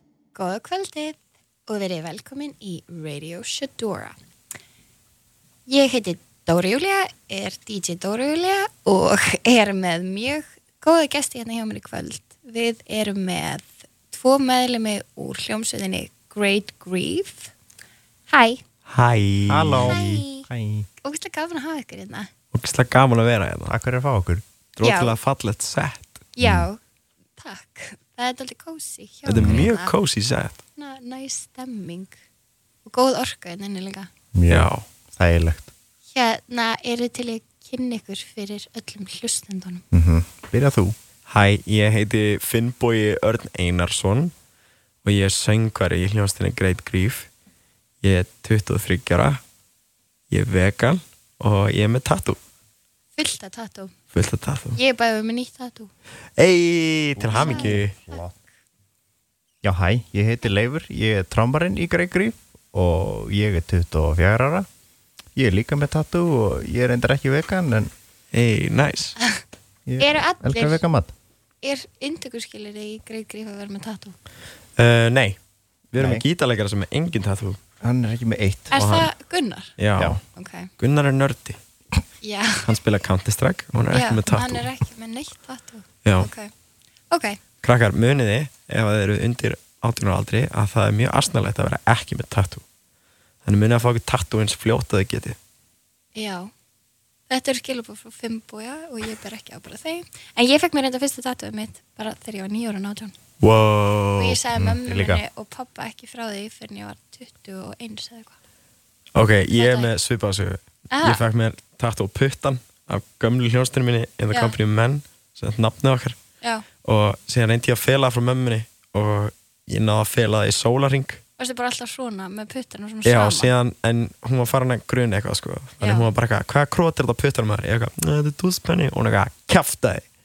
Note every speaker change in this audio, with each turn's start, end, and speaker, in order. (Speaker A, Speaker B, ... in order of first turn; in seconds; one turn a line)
Speaker A: 0.3-4.2
Speaker A: 5.7-17.5
Speaker A: 18.3-18.6
Speaker B: 18.9-20.2
Speaker C: 19.5-20.9
Speaker A: 19.8-20.5
Speaker A: 21.0-22.3
Speaker B: 22.5-23.7
Speaker C: 23.7-24.4
Speaker B: 24.8-26.2
Speaker A: 24.8-25.1
Speaker A: 26.4-26.8
Speaker C: 26.4-26.7
Speaker A: 27.4-29.9
Speaker B: 29.2-30.6
Speaker C: 29.4-29.6
Speaker A: 30.8-32.1
Speaker A: 32.8-34.1
Speaker C: 34.3-35.7
Speaker B: 34.5-34.8
Speaker A: 36.1-39.8
Speaker C: 39.9-41.0
Speaker B: 41.3-44.3
Speaker B: 45.0-47.3
Speaker B: 48.0-49.4
Speaker B: 50.3-52.4
Speaker A: 53.2-53.9
Speaker B: 54.1-54.8
Speaker A: 54.8-55.9
Speaker B: 56.4-57.9
Speaker C: 57.2-58.4
Speaker A: 57.3-58.2
Speaker C: 59.6-64.7
Speaker C: 65.3-67.9
Speaker B: 68.3-69.2
Speaker C: 69.8-71.1
Speaker A: 70.0-70.8
Speaker A: 71.6-74.2
Speaker B: 74.8-75.4
Speaker B: 75.9-77.6
Speaker C: 76.0-76.2
Speaker C: 77.8-78.7
Speaker A: 78.7-79.7
Speaker B: 78.7-79.1
Speaker B: 79.8-80.2
Speaker A: 80.3-80.7
Speaker B: 80.8-81.6
Speaker A: 82.2-82.6
Speaker B: 82.6-84.7
Speaker A: 83.9-86.5
Speaker B: 86.0-86.3
Speaker A: 87.1-87.4
Speaker B: 87.6-92.6
Speaker B: 93.4-95.3
Speaker A: 96.2-96.5
Speaker A: 97.3-103.1
Speaker B: 103.4-104.4
Speaker A: 104.2-108.3
Speaker C: 104.5-105.2
Speaker B: 109.1-116.2
Speaker A: 109.5-109.9
Speaker A: 110.9-111.2
Speaker B: 116.8-121.2
Speaker A: 121.4-123.5
Speaker B: 123.0-130.0
Speaker A: 125.8-126.1